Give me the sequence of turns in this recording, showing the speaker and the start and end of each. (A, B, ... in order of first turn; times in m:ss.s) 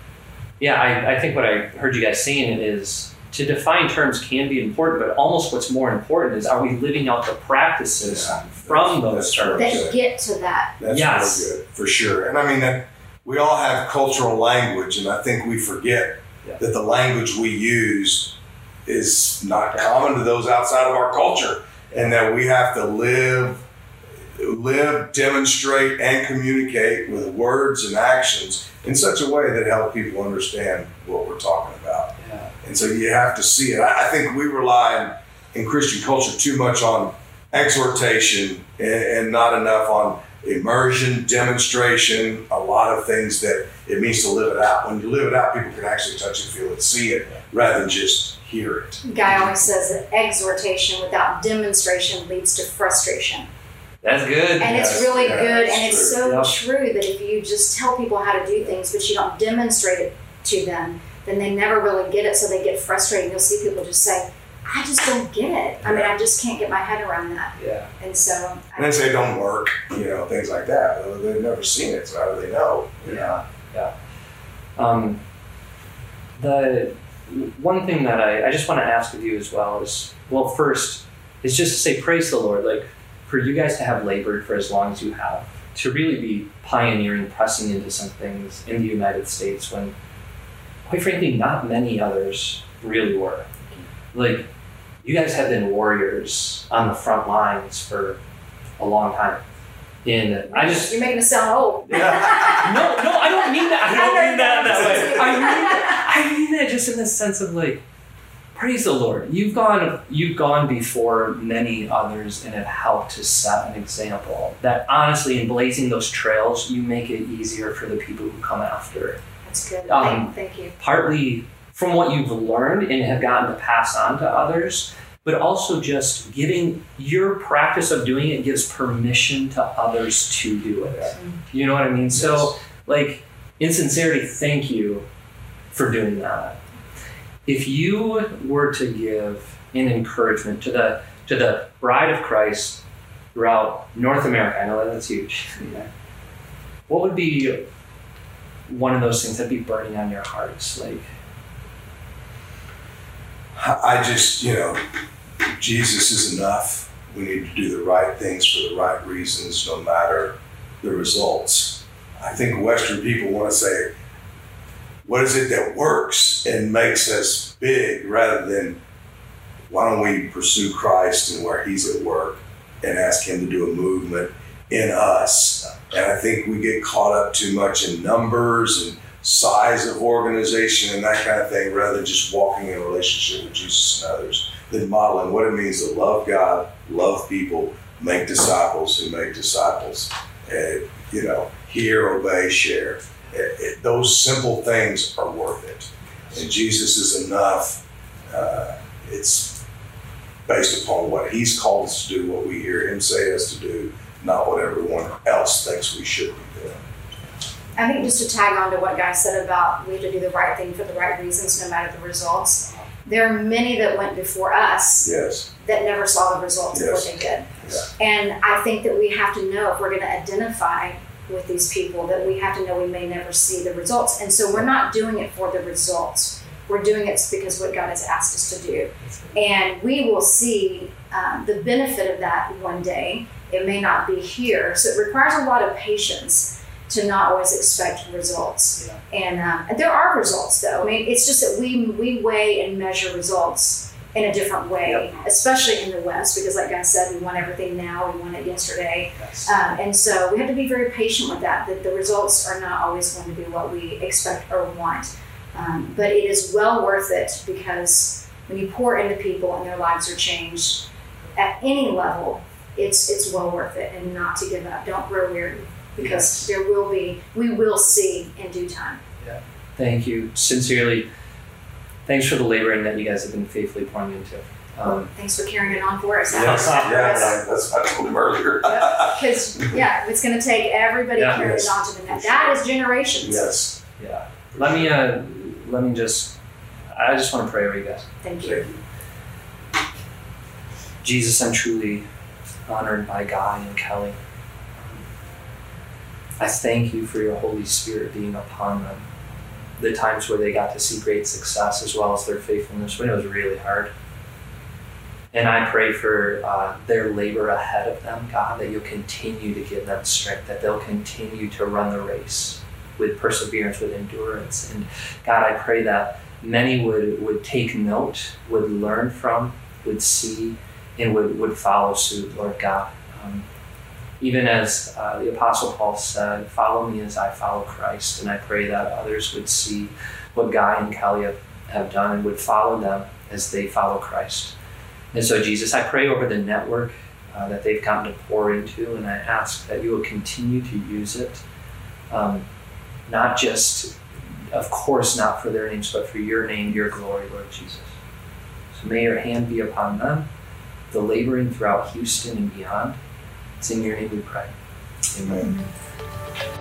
0:00.6-0:09.9 A
0:08.0-0:10.0 B
0:09.5-0:10.8 C
0:10.8-0:23.6 B
0:10.8-0:11.5 A
0:24.4-0:49.0 B
0:32.2-0:32.5 A
0:49.0-0:53.5 C
0:54.0-0:55.0 A
0:54.6-1:09.3 C
0:54.7-0:56.2 B
0:56.2-0:56.5 A
1:07.6-1:07.9 A
1:08.8-1:13.3 B
1:13.0-1:13.9 A
1:14.8-1:15.2 A
1:16.4-1:29.9 A
1:30.8-1:33.5 A
1:34.1-1:34.5 A
1:35.0-1:38.2 A
1:38.8-1:39.4 A
1:40.0-1:41.0 A
1:40.5-1:46.0 C
1:41.9-1:47.8 A
1:48.5-1:59.2 A
1:59.4-2:00.8 C
1:59.9-2:15.0 A
2:12.1-2:12.5 B
2:15.7-2:16.6 A
2:17.4-2:22.8 A
2:23.3-2:25.9 A
2:26.9-2:27.6 A
2:28.7-2:31.1 A
2:33.5-2:34.8 B
2:35.4-2:43.9 B
2:45.0-2:48.8 B
2:49.7-3:19.6 B
3:20.5-3:26.8 B
3:27.8-4:29.0 C
3:35.0-3:35.5 B
3:36.7-3:37.1 B
3:37.6-3:37.9 A
4:09.2-4:09.5 A
4:26.0-4:26.5 A
4:29.2-4:31.1 A
4:32.0-4:35.1 A
4:35.0-4:37.4 C
4:36.3-4:39.2 B
4:36.4-4:37.3 A
4:38.6-4:43.5 C
4:41.2-4:41.7 A
4:41.4-4:42.6 B
4:43.2-4:43.8 B
4:44.0-4:46.4 A
4:46.9-4:48.1 A
4:48.2-4:48.7 C
4:51.0-4:52.0 A
4:52.7-4:54.2 A
4:54.8-4:55.0 A
4:56.4-4:59.0 A
4:59.8-5:03.9 A
5:05.3-5:23.4 A
5:24.2-5:34.5 A
5:35.1-5:41.4 A
5:42.1-5:42.5 A
5:43.1-5:44.0 A
5:44.5-5:48.0 A
5:48.7-5:50.3 A
5:50.9-5:53.0 A
5:53.6-5:54.5 A
5:55.1-5:55.6 A
5:55.4-5:55.6 C